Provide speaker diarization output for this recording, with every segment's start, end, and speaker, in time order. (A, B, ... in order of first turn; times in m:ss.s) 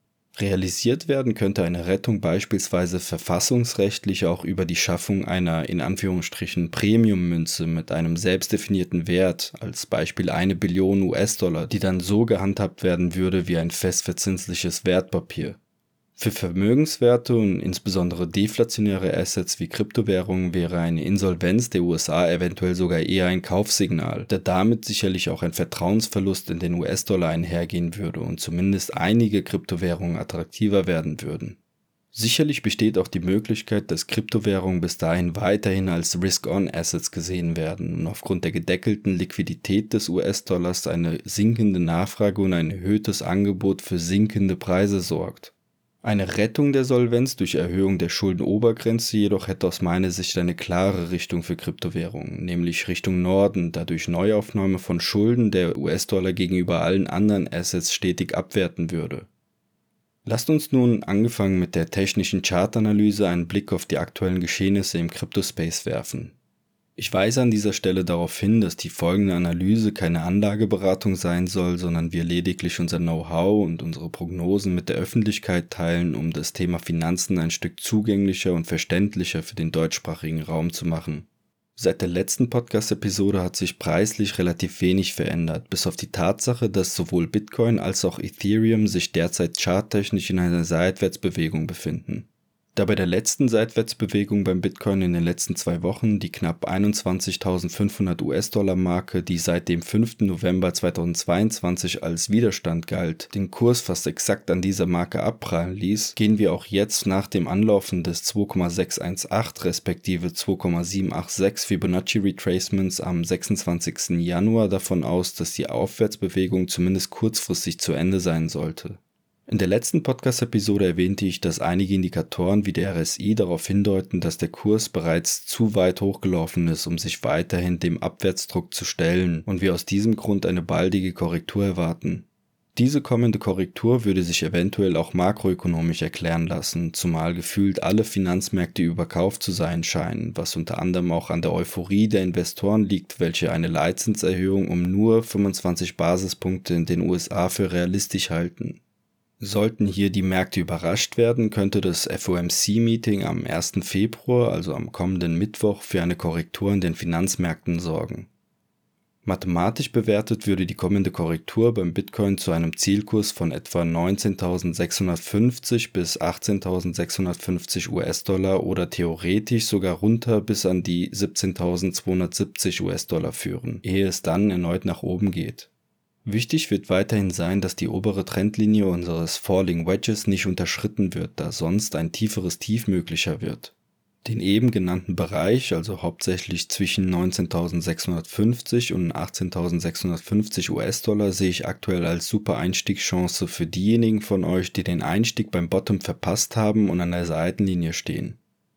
0:00.3-0:15.6 A
0:16.2-0:31.6 A
0:32.1-0:45.5 A
0:46.0-0:59.3 A
1:00.2-1:06.3 A
1:07.0-2:28.8 A
2:29.4-2:38.3 A
2:39.2-2:55.7 A
2:56.2-3:03.7 A
3:04.2-3:18.4 A